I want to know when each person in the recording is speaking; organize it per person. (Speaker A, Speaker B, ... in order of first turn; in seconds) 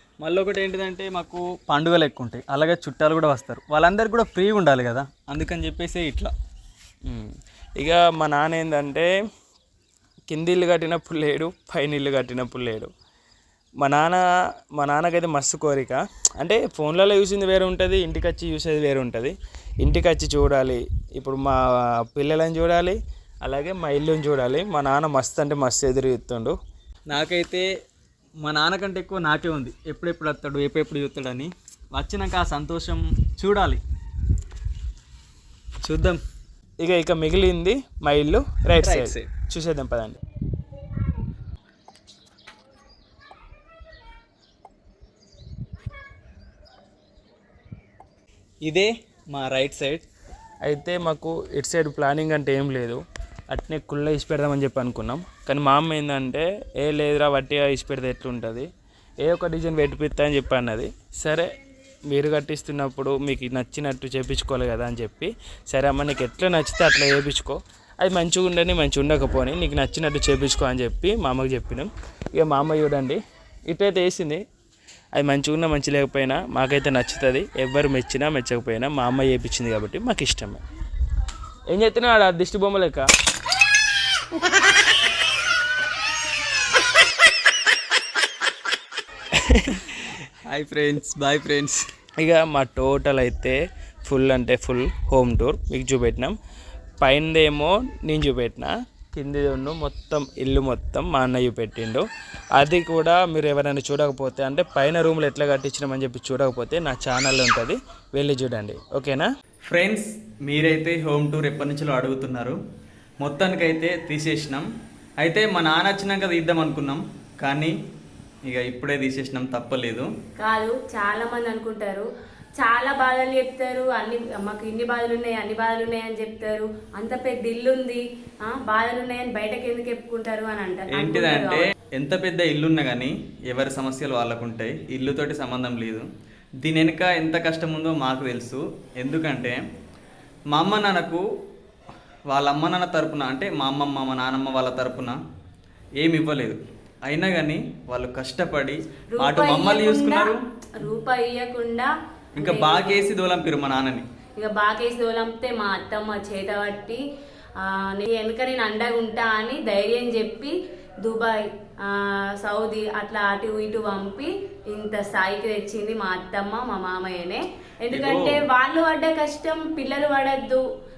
Speaker A: 0.2-6.3, 27.1-27.7, 28.4-33.8, 35.8-36.2, 38.8-39.3, 48.6-50.1, 90.5-91.8, 109.7-112.6, 113.2-114.7, 115.2-117.7, 118.5-120.1, 130.9-136.1, 136.6-139.6, 140.5-141.2, 142.3-145.2, 146.0-150.4, 152.4-154.1, 167.9-168.4
Speaker B: 7.1-9.1, 10.3-12.9, 13.8-14.2, 14.8-26.6, 36.8-40.2, 50.6-58.7, 59.2-61.5, 62.1-74.4, 75.2-80.6, 81.7-83.1, 89.3-89.9, 92.2-96.3, 97.0-102.0, 102.6-109.3
Speaker C: 120.4-122.1, 122.6-131.6, 149.2-153.1, 154.4-157.0, 157.6-170.6